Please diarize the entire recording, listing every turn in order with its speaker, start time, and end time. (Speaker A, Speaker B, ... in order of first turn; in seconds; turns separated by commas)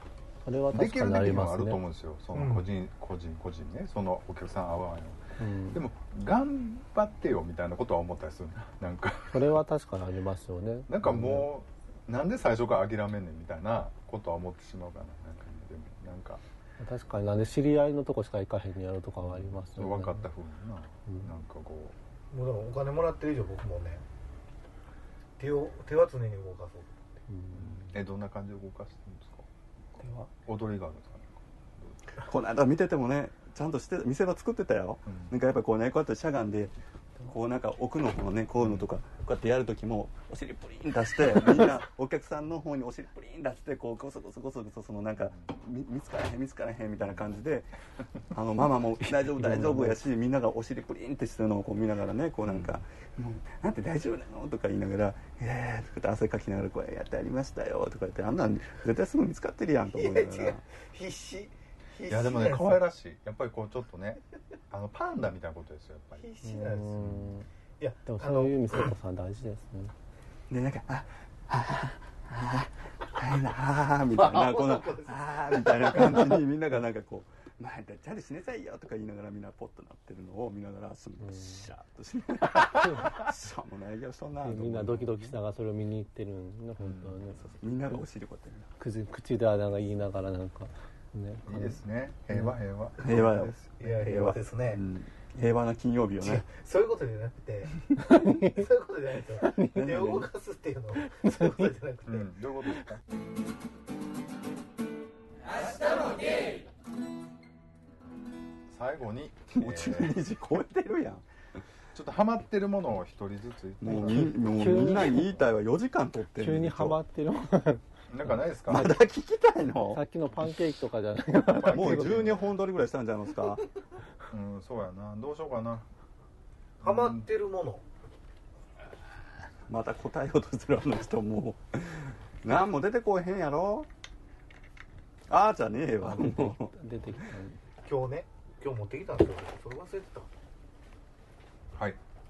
Speaker A: 0.4-1.8, Speaker B: 0.7-9.6, Speaker C: 2.3-2.7, Speaker A: 5.4-5.8, Speaker A: 9.3-11.5, Speaker B: 10.9-16.4, Speaker A: 16.8-20.2, Speaker B: 19.2-21.9, Speaker C: 22.3-24.0, Speaker C: 25.4-27.0, Speaker A: 27.3-27.8, Speaker B: 27.5-29.4, Speaker B: 30.4-31.9, Speaker D: 32.2-47.7, Speaker B: 35.0-35.3, Speaker D: 48.3-60.6, Speaker A: 49.2-49.9, Speaker B: 52.5-52.8, Speaker C: 59.9-62.8, Speaker B: 62.1-66.3, Speaker C: 66.2-67.0, Speaker A: 66.4-67.5, Speaker B: 67.0-67.3, Speaker C: 67.8-68.9, Speaker A: 68.0-69.9, Speaker D: 70.5-85.4, Speaker C: 74.1-76.4, Speaker A: 81.2-81.6, Speaker A: 84.4-87.4, Speaker B: 86.8-87.2, Speaker D: 87.3-88.7, Speaker A: 88.8-91.8, Speaker B: 91.5-93.7, Speaker D: 93.0-96.5, Speaker C: 93.8-94.8, Speaker C: 96.2-102.3, Speaker A: 98.0-98.6, Speaker A: 99.4-99.8, Speaker D: 99.7-100.3, Speaker A: 101.2-101.7, Speaker B: 102.1-103.0, Speaker B: 108.7-110.2, Speaker D: 109.5-111.2, Speaker B: 111.9-115.4, Speaker D: 113.8-117.0, Speaker A: 114.0-115.3, Speaker A: 116.3-117.8, Speaker B: 118.1-118.9, Speaker D: 118.7-120.0, Speaker A: 118.7-119.0, Speaker A: 119.8-122.3, Speaker B: 121.4-122.4, Speaker D: 121.7-123.6, Speaker B: 124.3-125.9, Speaker B: 126.8-127.2, Speaker C: 126.8-127.8, Speaker D: 129.7-133.9, Speaker D: 135.3-136.7, Speaker A: 136.0-137.6, Speaker C: 137.8-140.3